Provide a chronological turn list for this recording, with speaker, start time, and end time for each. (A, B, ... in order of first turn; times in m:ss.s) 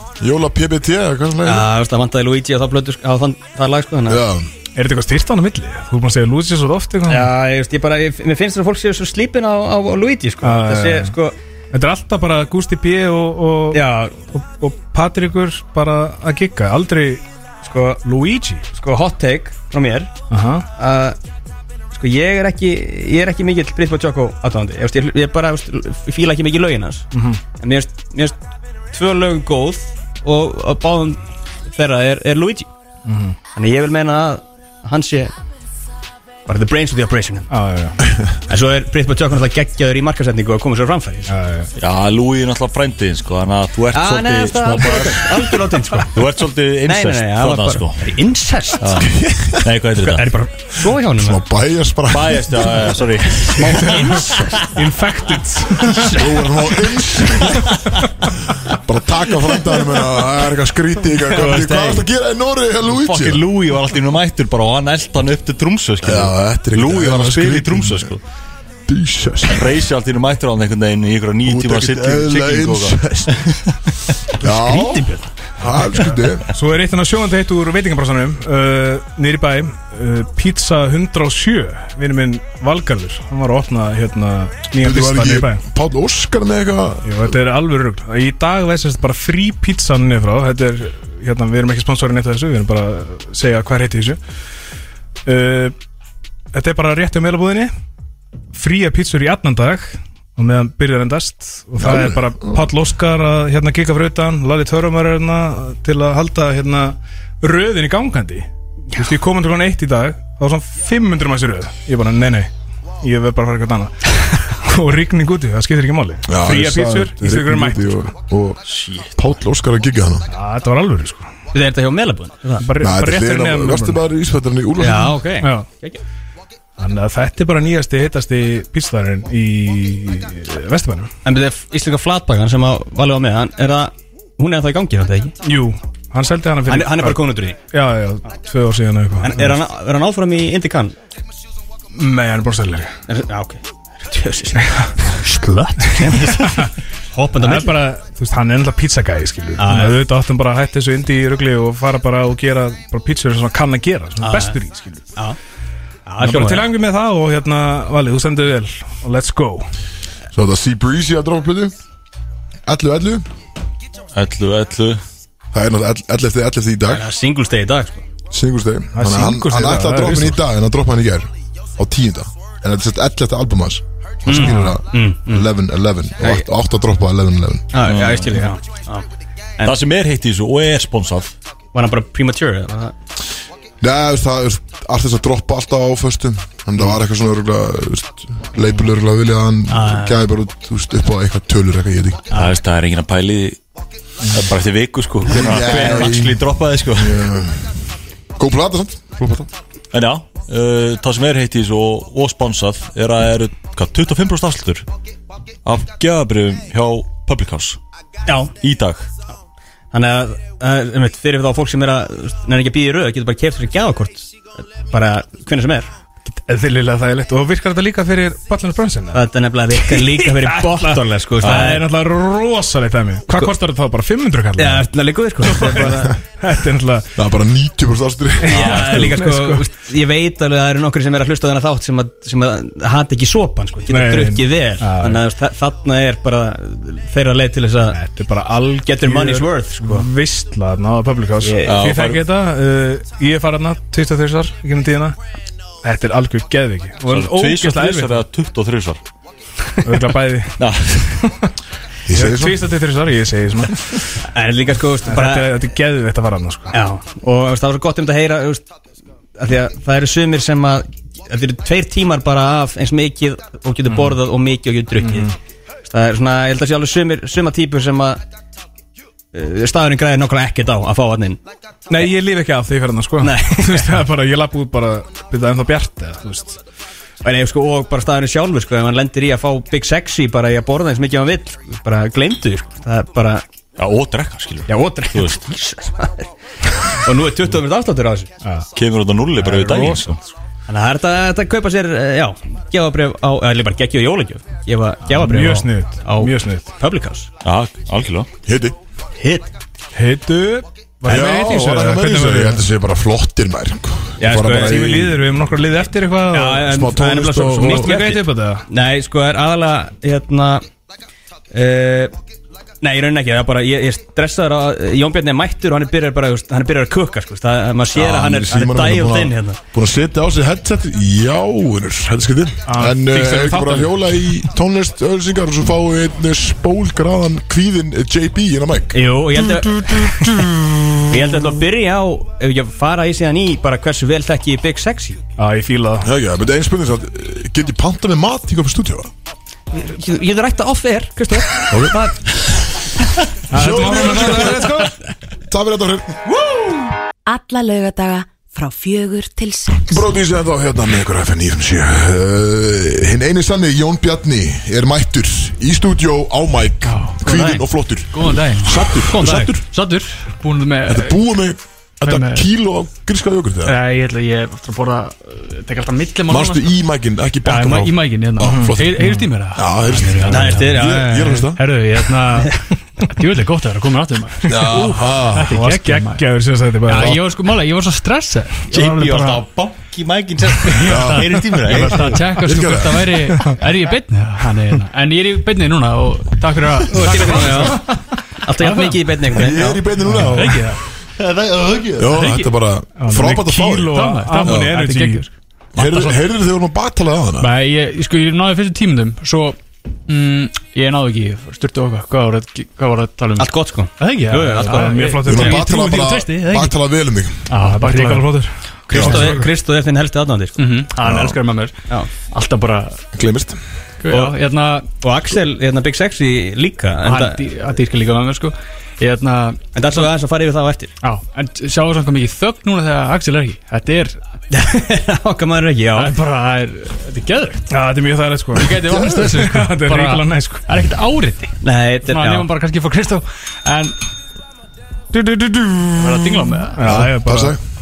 0:00.2-0:01.6 A
0:01.4-0:04.2 B
0:04.1-0:04.5 A
0:04.7-0:07.3 C
0:07.1-0:11.3 B
0:10.4-0:11.1 C
0:11.7-0:17.2 C
0:13.7-0:14.2 B
0:17.6-0:18.0 B
0:18.0-0:18.7 C
0:18.7-0:20.1 B
0:20.3-0:20.7 C
0:20.8-0:21.2 B
0:21.9-0:27.0 B
0:27.1-0:27.4 C
0:27.6-0:28.4 B
0:28.9-0:32.7 B
0:33.0-0:33.4 C
0:33.5-0:35.3 B
0:36.4-0:37.5 B
0:37.5-0:38.0 C
0:38.5-0:41.3 B
0:41.3-0:41.7 C
0:41.8-0:45.6 D
0:43.9-0:46.2 B
0:46.1-0:48.1 D
0:46.8-0:49.0 B
0:48.8-0:50.3 D
0:49.1-0:49.7 A
0:50.0-0:51.4 B
0:50.9-0:53.0 A
0:52.1-0:54.3 D
0:53.5-0:56.4 C
0:53.6-0:54.4 B
0:56.0-0:57.7 A
0:58.4-1:03.4 A
1:01.4-1:02.0 D
1:02.9-1:08.2 D
1:06.0-1:08.1 A
1:08.8-1:09.8 A
1:09.5-1:13.6 D
1:11.4-1:13.6 A
1:14.3-1:16.5 A
1:14.4-1:15.3 B
1:16.5-1:25.6 C
1:24.8-1:27.3 A
1:27.0-1:34.2 C
1:35.2-1:35.7 C
1:36.5-1:37.7 C
1:38.5-1:52.5 C
1:41.8-1:42.6 A
1:53.0-1:58.0 C
1:56.3-1:58.6 A
1:58.7-1:59.1 D
1:59.1-2:00.3 A
2:00.3-2:01.3 C
2:01.5-2:02.6 B
2:02.6-2:04.0 C
2:02.8-2:05.2 A
2:04.8-2:06.0 B
2:05.4-2:05.7 C
2:06.8-2:11.1 C
2:11.2-2:15.3 B
2:15.4-2:17.2 C
2:16.7-2:17.6 B
2:17.7-2:19.6 C
2:19.2-2:20.9 B
2:21.9-2:22.9 C
2:23.1-2:27.8 B
2:24.6-2:24.9 C
2:25.2-2:26.0 E
2:26.0-2:26.7 C
2:27.4-2:35.1 C
2:29.6-2:30.0 B
2:34.2-2:34.6 B
2:36.1-2:36.7 B
2:36.2-2:39.7 C
2:40.3-2:41.7 A
2:42.6-2:43.2 A
2:44.1-2:45.0 D
2:45.5-2:47.0 A
2:46.9-2:48.0 B
2:48.3-2:57.6 A
2:48.9-2:50.4 C
2:54.3-2:55.5 B
2:54.3-2:54.7 C
2:56.2-2:56.5 B
2:57.7-2:59.0 B
2:57.8-2:58.5 D
2:59.6-3:01.3 D
3:01.7-3:02.9 B
3:03.8-3:12.2 A
3:09.7-3:10.2 B
3:12.3-3:13.6 D
3:14.3-3:17.2 D
3:15.2-3:17.8 A
3:15.6-3:16.1 B
3:18.4-3:19.5 A
3:19.9-3:24.8 D
3:25.6-3:27.8 D
3:28.2-3:28.5 B
3:28.6-3:29.0 D
3:29.9-3:35.9 B
3:36.3-3:44.9 C
3:39.1-3:41.8 B
3:41.4-3:41.7 D
3:44.6-3:46.2 B
3:45.4-3:47.1 C
3:47.2-3:49.1 A
3:48.4-3:49.6 C
3:48.5-3:58.0 B
3:48.6-3:48.8 D
3:53.9-3:55.2 C
3:57.9-4:05.2 C
3:58.8-4:00.1 B
4:01.4-4:01.7 B
4:01.6-4:02.2 D
4:05.8-4:08.1 C
4:07.1-4:09.0 D
4:09.8-4:11.5 C
4:10.6-4:11.1 D
4:12.0-4:12.6 A
4:12.1-4:14.2 C
4:14.3-4:15.5 B
4:15.0-4:16.7 C
4:16.7-4:18.6 B
4:19.4-4:25.3 B
4:25.0-4:25.3 C
4:25.8-4:28.2 B
4:29.3-4:31.4 B
4:31.9-4:36.6 C
4:33.2-4:33.9 B
4:37.2-4:43.4 B
4:43.8-4:45.5 D
4:44.7-4:46.3 B
4:46.8-4:48.3 B
4:48.8-4:50.2 D
4:49.4-4:50.3 C
4:50.7-4:57.3 B
4:55.1-4:56.6 C
4:57.4-4:58.3 D
4:58.4-4:58.8 A
4:59.2-4:59.5 B
4:59.9-5:02.6 C
5:01.0-5:05.2 A
5:04.2-5:04.8 B
5:04.4-5:06.7 C
5:06.3-5:10.6 B
5:06.6-5:08.1 A
5:07.6-5:08.6 C
5:11.5-5:12.1 B
5:12.8-5:19.6 B
5:17.9-5:31.0 A
5:22.7-5:24.1 C
5:28.9-5:30.3 B
5:31.1-5:35.2 B
5:35.4-5:36.1 C
5:36.0-5:39.1 A
5:39.7-5:42.1 B
5:41.6-5:42.0 A
5:43.5-5:44.9 A
5:43.5-5:44.9 C
5:45.5-5:46.1 A
5:46.3-5:46.9 B
5:47.2-5:50.0 F
5:49.9-5:59.6 A
5:56.8-6:01.2 E
6:00.8-6:03.7 A
6:02.0-6:02.5 E
6:03.6-6:06.8 E
6:06.3-6:11.6 A
6:07.4-6:19.4 E
6:08.4-6:09.2 C
6:10.3-6:11.5 B
6:14.4-6:15.5 A
6:14.4-6:17.2 C
6:16.9-6:17.2 A
6:18.7-6:22.2 D
6:20.6-6:27.9 E
6:20.8-6:23.3 A
6:23.3-6:23.6 C
6:26.9-6:28.0 C
6:26.9-6:27.9 B
6:28.4-6:29.9 B
6:28.5-6:29.2 E
6:29.3-6:30.8 A
6:30.0-6:30.8 E
6:30.1-6:30.5 C
6:31.2-6:32.2 D
6:32.0-6:34.8 A
6:32.1-6:32.5 E
6:33.0-6:35.3 C
6:33.8-6:36.2 E
6:35.8-6:37.5 A
6:37.4-6:46.8 E
6:43.4-6:45.2 B
6:44.6-6:45.7 C
6:45.2-6:47.5 A
6:47.5-6:48.4 E
6:47.6-6:49.5 C
6:48.9-6:50.6 B
6:48.9-6:49.3 A
6:50.6-6:53.0 E
6:51.0-6:51.4 A
6:53.1-6:53.6 A
6:54.0-6:54.9 E
6:54.1-6:54.4 B
6:55.0-6:57.4 B
6:57.0-7:00.1 E
6:59.7-7:00.9 B
7:01.0-7:04.2 E
7:04.5-7:06.1 B
7:05.9-7:07.7 E
7:07.7-7:10.6 C
7:08.5-7:14.0 E
7:11.6-7:12.5 B
7:15.1-7:17.6 C
7:16.0-7:17.0 E
7:16.8-7:17.6 A